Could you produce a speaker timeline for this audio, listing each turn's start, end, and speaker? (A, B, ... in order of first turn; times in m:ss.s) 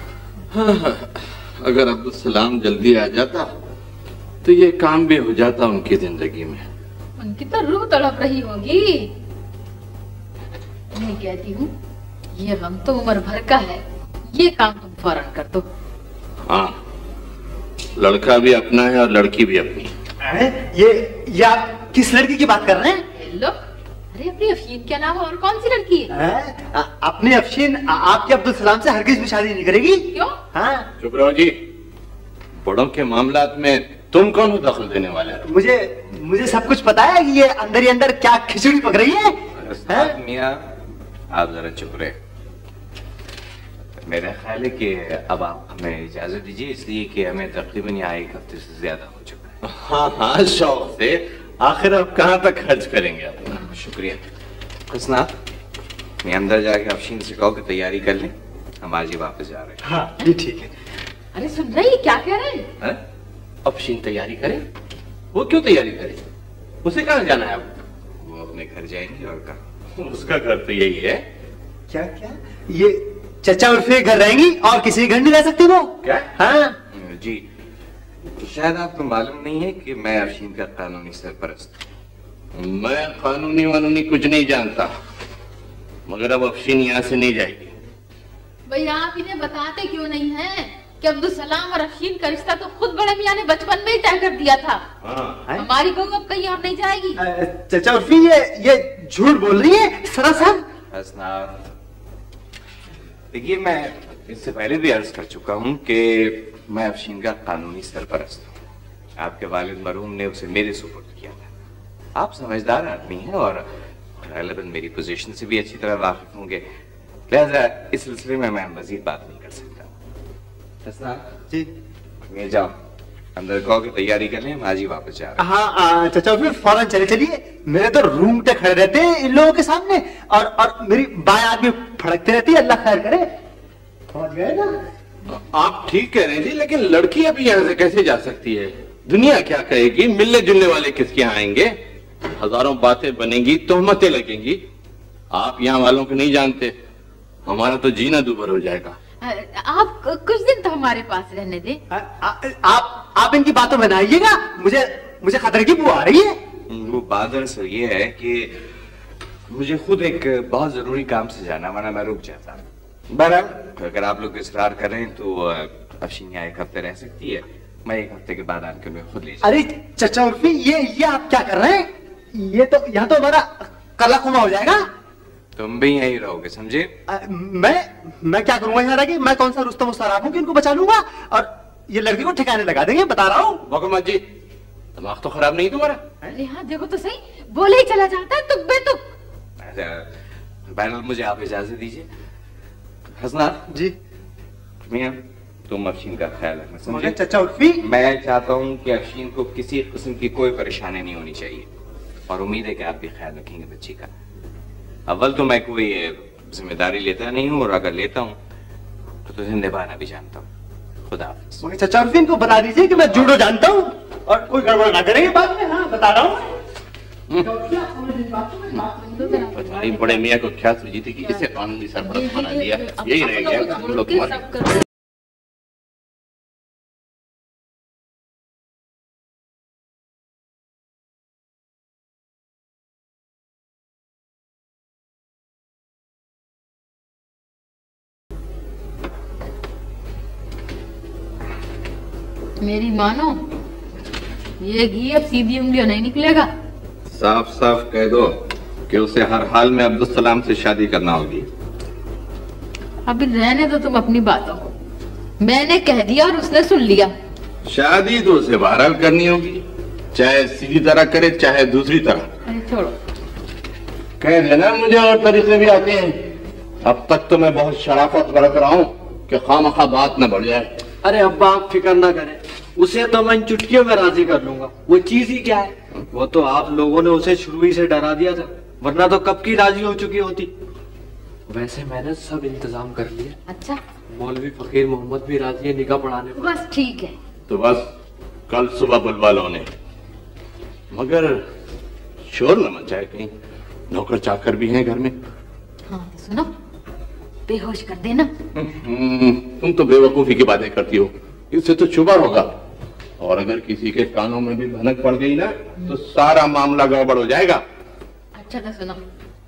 0:00.5-0:03.5 A
0:04.4-0:06.6 A
0:07.2-0:09.1 B
0:10.9-0:11.7 B
0:12.4-0:13.8 B
0:14.3-0:15.6 B
0:16.5-0:16.7 A
0:18.0-0:19.9 A
0:20.2-0:23.0 C
0:23.2-0:26.1 B
0:26.1-0:30.8 C
0:31.0-0:31.5 A
0:32.6-0:35.4 A
0:35.4-0:39.3 C
0:39.6-0:40.7 D
0:39.8-0:40.2 C
0:41.3-0:42.2 D
0:44.0-0:49.6 D
0:49.6-0:53.6 A
0:53.7-0:54.2 D
0:54.9-0:55.3 D
0:56.2-0:59.8 D
0:59.8-1:00.7 C
1:01.3-1:02.7 B
1:03.6-1:04.6 D
1:05.3-1:06.2 A
1:06.8-1:07.7 A
1:08.2-1:09.6 D
1:10.0-1:11.2 A
1:11.9-1:16.7 C
1:16.9-1:17.4 D
1:18.4-1:21.8 D
1:22.5-1:24.9 A
1:26.1-1:27.7 A
1:28.7-1:34.8 B
1:35.0-1:35.4 A
1:35.6-1:37.2 B
1:37.2-1:40.6 C
1:40.9-1:41.7 D
1:43.3-1:48.5 D
1:49.2-1:51.5 D
1:52.1-1:53.6 D
1:54.2-1:56.6 D
1:57.3-1:59.9 D
2:00.8-2:01.2 D
2:02.3-2:02.7 D
2:03.4-2:05.4 D
2:05.4-2:13.2 C
2:14.1-2:14.7 C
2:15.5-2:21.7 A
2:22.4-2:24.6 A
2:25.3-2:26.7 A
2:27.4-2:29.0 A
2:29.2-2:31.8 B
2:31.9-2:36.4 C
2:36.7-2:38.5 D
2:39.5-2:49.6 D
2:49.4-2:54.8 C
2:55.6-2:56.9 D
2:57.1-3:03.6 C
3:03.7-3:04.2 A
3:05.0-3:06.0 A
3:06.3-3:09.0 B
3:09.6-3:10.1 D
3:10.7-3:12.1 D
3:13.1-3:13.6 D
3:13.7-3:13.9 C
3:14.9-3:17.2 D
3:16.9-3:17.8 C
3:17.8-3:21.7 D
3:22.3-3:24.1 D
3:25.1-3:28.4 D
3:29.2-3:30.5 D
3:31.1-3:31.6 D
3:31.6-3:36.4 C
3:37.4-3:39.4 C
3:38.8-3:40.3 B
3:39.5-3:44.5 A
3:39.6-3:39.8 D
3:42.0-3:44.7 B
4:02.6-4:03.4 B
4:04.6-4:06.5 B
4:07.1-4:08.3 A
4:08.9-4:11.5 A
4:13.0-4:14.7 B
4:15.4-4:17.1 B
4:17.6-4:19.6 A
4:20.1-4:22.3 A
4:22.4-4:22.9 B
4:24.2-4:26.2 A
4:26.8-4:30.7 A
4:31.0-4:40.5 E
4:41.5-4:43.4 E
4:43.5-4:43.8 B
4:44.1-4:46.5 E
4:46.3-4:47.1 B
4:47.5-4:47.8 A
4:48.5-4:49.7 A
4:50.9-4:51.4 A
4:52.3-4:53.3 A
4:53.9-4:55.1 A
4:55.9-4:56.5 B
4:57.5-4:58.3 B
4:58.6-5:02.5 A
5:03.2-5:07.6 A
5:08.4-5:09.0 B